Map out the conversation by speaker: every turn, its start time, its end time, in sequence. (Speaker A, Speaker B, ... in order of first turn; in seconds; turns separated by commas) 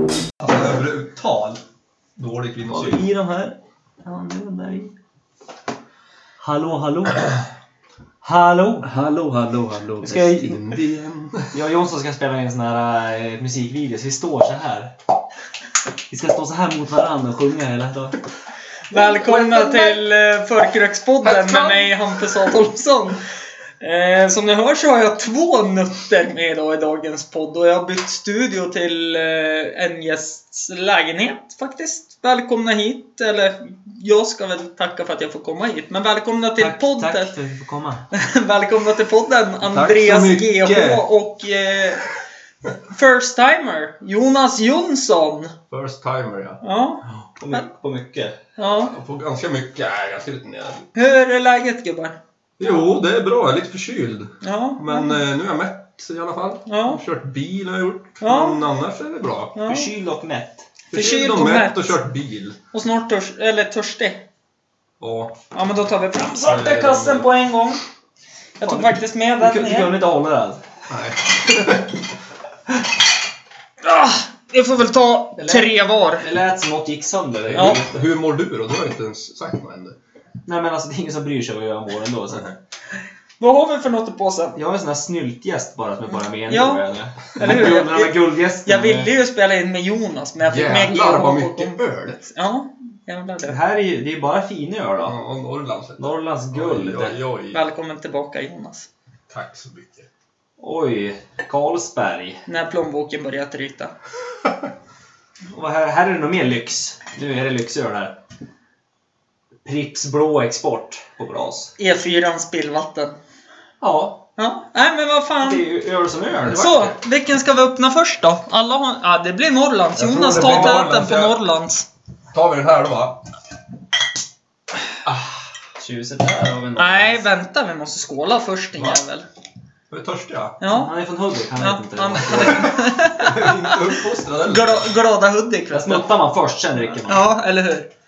Speaker A: 0.4-1.6, Speaker A: 2.2-3.0, Speaker B: 2.7-4.9, Speaker B: 6.4-7.4, Speaker B: 8.2-8.9, Speaker A: 8.8-11.6, Speaker B: 10.0-10.7, Speaker B: 11.5-14.9, Speaker B: 16.1-18.2, Speaker C: 18.9-23.2, Speaker A: 19.3-19.7, Speaker B: 19.3-19.7, Speaker A: 21.2-21.9, Speaker C: 23.8-37.3, Speaker B: 36.6-38.1, Speaker C: 38.1-42.1, Speaker A: 39.6-41.0, Speaker C: 42.9-45.5, Speaker A: 45.7-46.6, Speaker C: 46.6-47.7, Speaker B: 47.4-48.4, Speaker C: 48.6-48.9, Speaker A: 48.8-50.9, Speaker C: 51.0-52.2, Speaker A: 52.6-59.6, Speaker C: 54.4-55.2, Speaker C: 56.7-57.0, Speaker C: 58.2-58.6, Speaker C: 59.6-59.9, Speaker B: 59.6-60.7, Speaker A: 60.9-62.6, Speaker C: 60.9-62.0, Speaker C: 62.7-64.2, Speaker A: 65.0-65.4, Speaker C: 65.5-67.8, Speaker A: 66.4-67.3, Speaker C: 68.6-70.0, Speaker B: 68.7-70.6, Speaker A: 70.9-72.0, Speaker C: 73.8-76.3, Speaker B: 75.4-78.0, Speaker A: 77.5-80.0, Speaker B: 80.5-82.5, Speaker A: 82.3-82.6, Speaker C: 83.4-84.6, Speaker B: 84.6-89.1, Speaker C: 86.5-86.8, Speaker C: 87.4-91.8, Speaker A: 90.5-92.3, Speaker C: 92.3-93.6, Speaker B: 93.5-95.2, Speaker A: 95.0-97.6, Speaker B: 96.0-97.2, Speaker C: 97.5-98.9, Speaker A: 99.3-100.1, Speaker B: 100.6-102.4, Speaker C: 102.5-103.9, Speaker B: 105.5-108.2, Speaker B: 109.7-111.7, Speaker C: 111.8-113.2, Speaker B: 113.8-114.2, Speaker C: 114.4-115.7, Speaker B: 115.4-117.0, Speaker C: 116.4-121.9, Speaker A: 120.0-121.4, Speaker B: 120.3-120.9, Speaker A: 122.3-123.2, Speaker B: 125.0-127.2, Speaker C: 126.8-129.3, Speaker A: 129.9-130.6, Speaker C: 130.6-130.9, Speaker B: 130.7-132.8, Speaker C: 131.6-136.2, Speaker A: 132.5-135.0, Speaker B: 135.7-137.3, Speaker C: 137.0-137.9